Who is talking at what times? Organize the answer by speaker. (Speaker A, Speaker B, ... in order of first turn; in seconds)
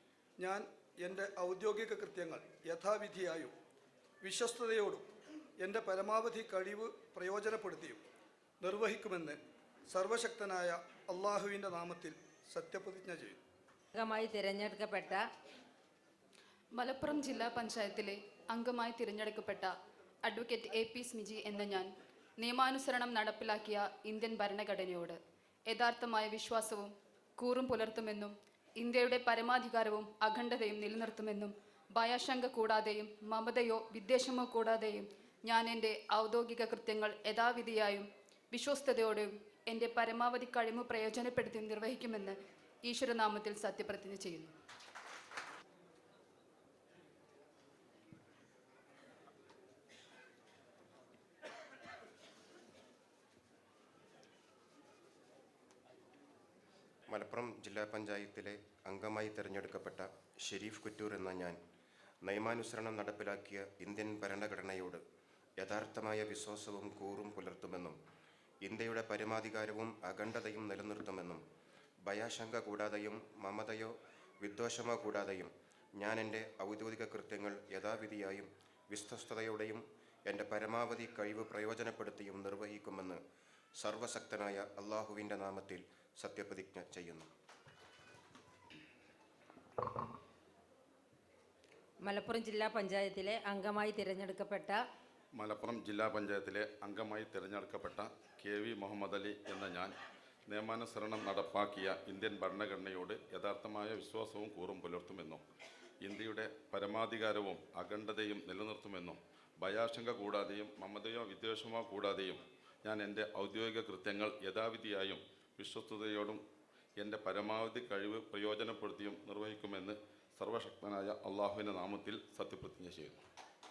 Speaker A: 0.4-3.5, 4.2-5.1, 5.6-8.0, 8.6-9.4, 9.9-13.4
Speaker B: 13.9-15.2, 92.0-94.8
Speaker C: 16.8-19.7, 20.2-25.2, 25.7-44.5
Speaker D: 57.1-61.6, 62.2-65.0, 65.6-68.0, 68.6-71.4, 72.0-83.2, 83.8-87.3
Speaker E: 95.4-99.9, 100.5-105.4, 106.0-116.4, 117.0-123.2